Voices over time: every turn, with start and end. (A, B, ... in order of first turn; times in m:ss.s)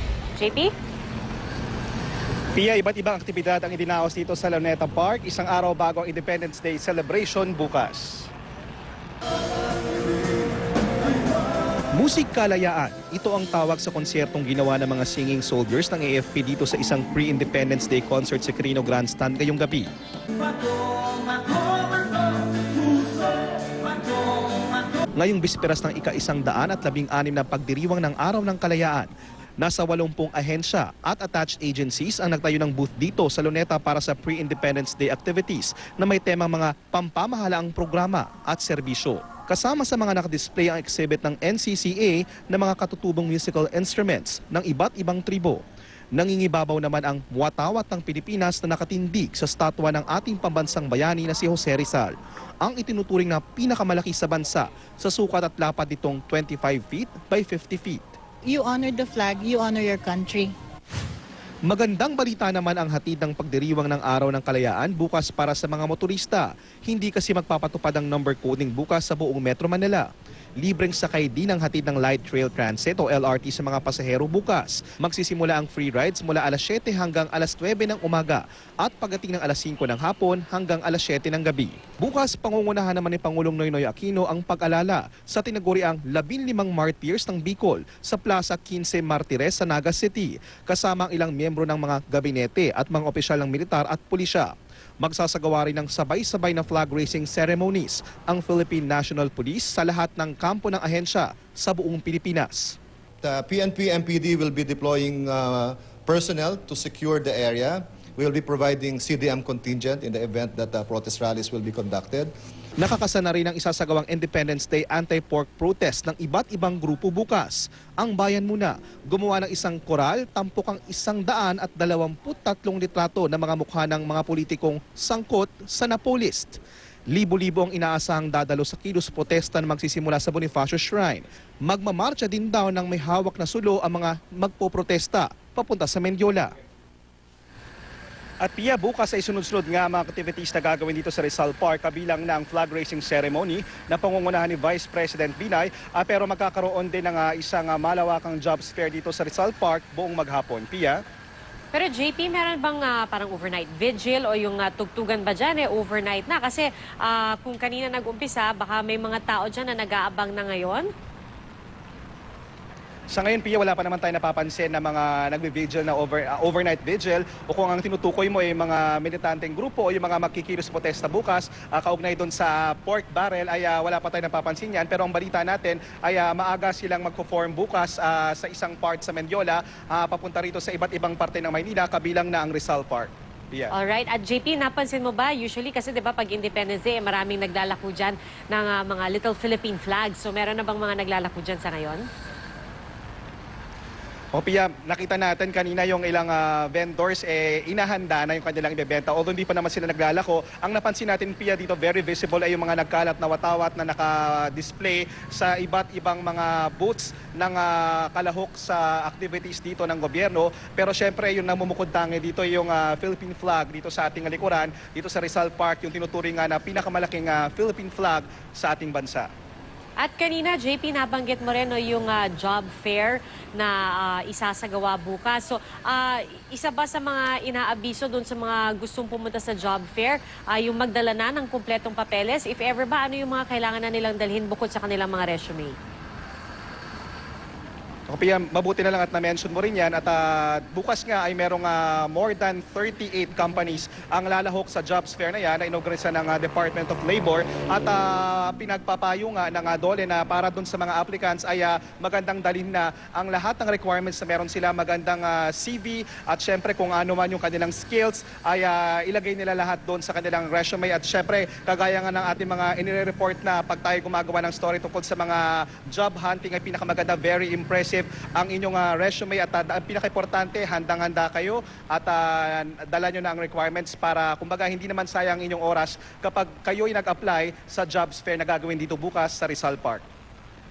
0:00.4-0:00.7 A
0:02.5-0:08.3 B
0:11.9-0:19.9 B
0:25.2-0:45.6 B
0:46.1-0:58.1 B
0:58.5-1:00.5 C
1:01.7-1:10.1 B
1:10.6-1:34.5 B
1:35.0-1:42.8 B
1:43.2-1:52.3 D
1:52.8-2:06.6 B
2:07.1-2:16.5 B
2:18.4-2:31.0 B
2:31.7-2:40.9 A
2:43.1-3:03.7 B
3:03.7-3:12.0 A
3:14.3-3:39.3 B
3:40.0-3:55.8 A
3:58.1-4:40.0 B